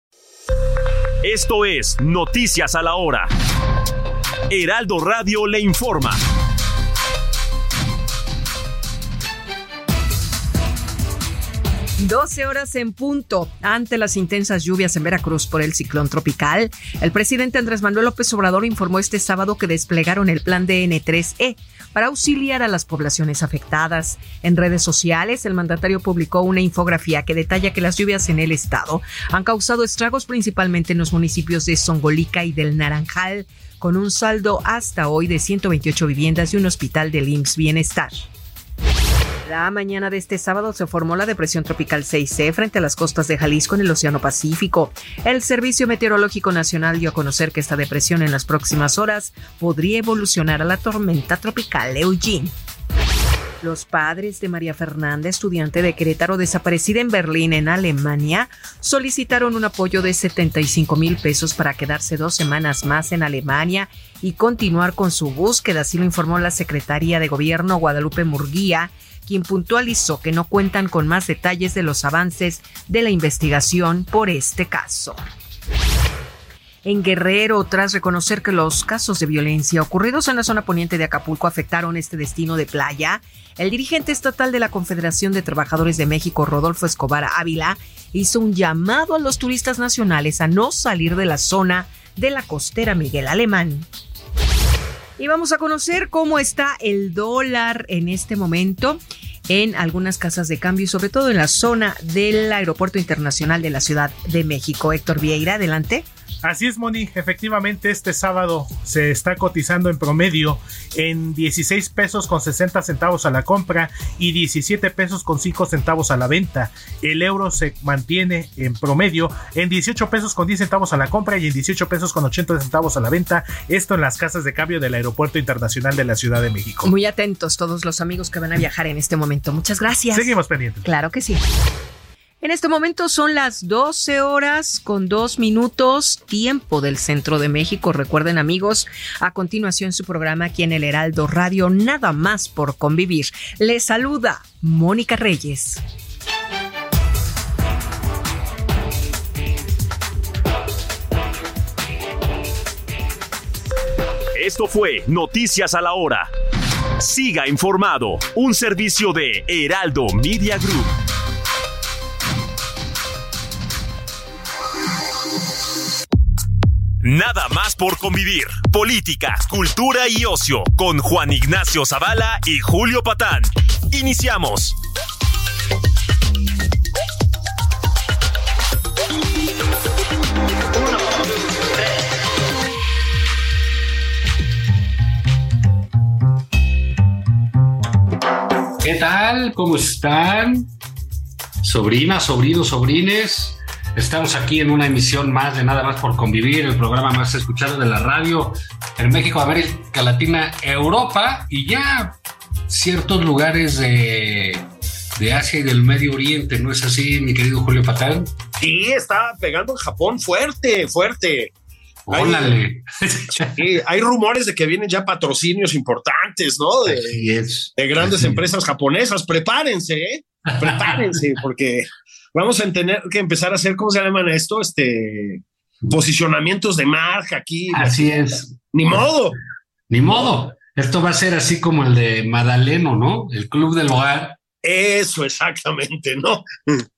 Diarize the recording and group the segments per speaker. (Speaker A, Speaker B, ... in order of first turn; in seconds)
Speaker A: 1.2-3.3, 4.5-6.2, 154.3-156.3, 157.0-160.9, 167.0-174.8
Speaker B: 12.0-38.3, 39.5-52.5, 53.6-75.2, 76.8-93.9, 95.2-106.1, 126.8-131.4, 132.4-145.8
Speaker C: 106.4-126.9, 130.1-130.8
Speaker D: 188.8-190.7, 191.6-202.2, 202.7-204.6, 205.2-208.3, 212.1-213.7, 216.9-218.4, 220.6-221.0, 227.7-228.6, 229.9-234.4
Speaker E: 208.6-211.5, 212.1-212.5, 213.4-228.1, 228.7-229.4, 234.6-236.8